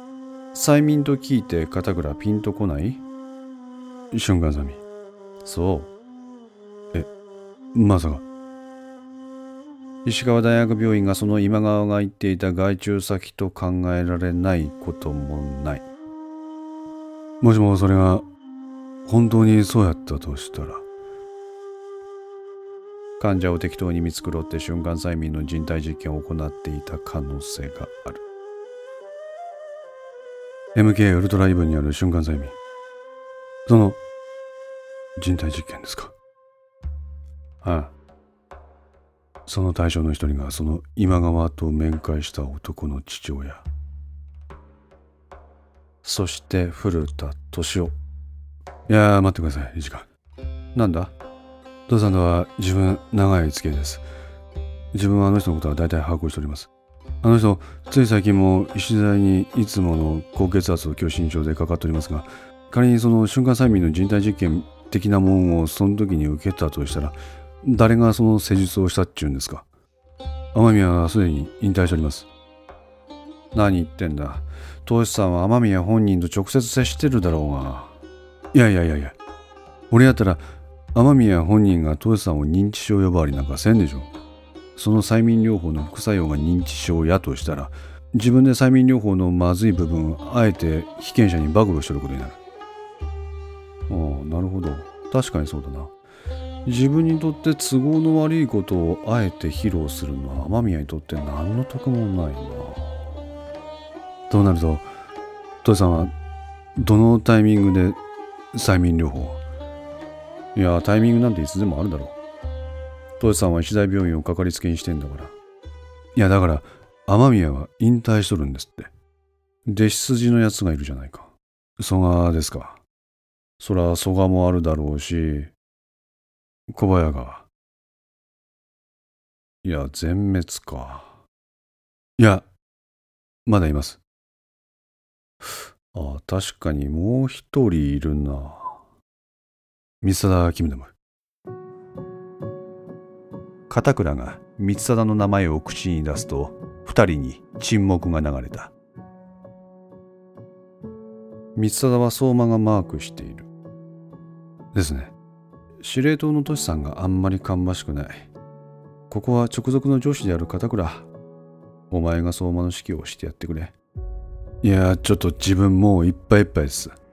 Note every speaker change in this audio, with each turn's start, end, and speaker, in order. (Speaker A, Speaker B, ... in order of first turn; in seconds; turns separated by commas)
Speaker A: 0.5-3.0, Speaker A: 4.1-4.8, Speaker A: 5.4-5.9, Speaker A: 7.7-8.2, Speaker A: 10.1-15.8, Speaker A: 17.4-18.2, Speaker A: 19.1-20.9, Speaker A: 23.2-28.2, Speaker A: 30.8-32.6, Speaker A: 33.7-34.0, Speaker A: 35.2-36.1, Speaker A: 37.6-37.9, Speaker A: 39.5-43.6, Speaker A: 46.0-47.9, Speaker A: 48.9-50.1, Speaker A: 50.8-51.1, Speaker A: 51.9-54.0, Speaker A: 54.9-56.7, Speaker A: 57.2-69.7, Speaker A: 70.5-72.3, Speaker A: 73.5-77.9, Speaker A: 78.5-79.2, Speaker A: 79.9-84.1, Speaker A: 84.8-92.4, Speaker A: 93.9-95.9, Speaker A: 96.7-103.0, Speaker A: 104.3-104.9, Speaker A: 105.6-106.1, Speaker A: 106.8-108.0, Speaker A: 108.5-109.4, Speaker A: 110.5-112.2, Speaker A: 113.2-115.3, Speaker A: 116.2-118.9, Speaker A: 119.7-122.8, Speaker A: 123.6-125.5, Speaker A: 126.7-127.5, Speaker A: 129.6-131.2, Speaker A: 132.2-132.5, Speaker A: 133.5-134.0, Speaker A: 135.9-138.8, Speaker A: 140.0-140.9, Speaker A: 143.7-148.7, Speaker A: 151.6-153.5, Speaker A: 154.7-155.1, Speaker A: 155.8-158.3, Speaker A: 159.1-161.1, Speaker A: 161.9-163.8, Speaker A: 164.6-166.9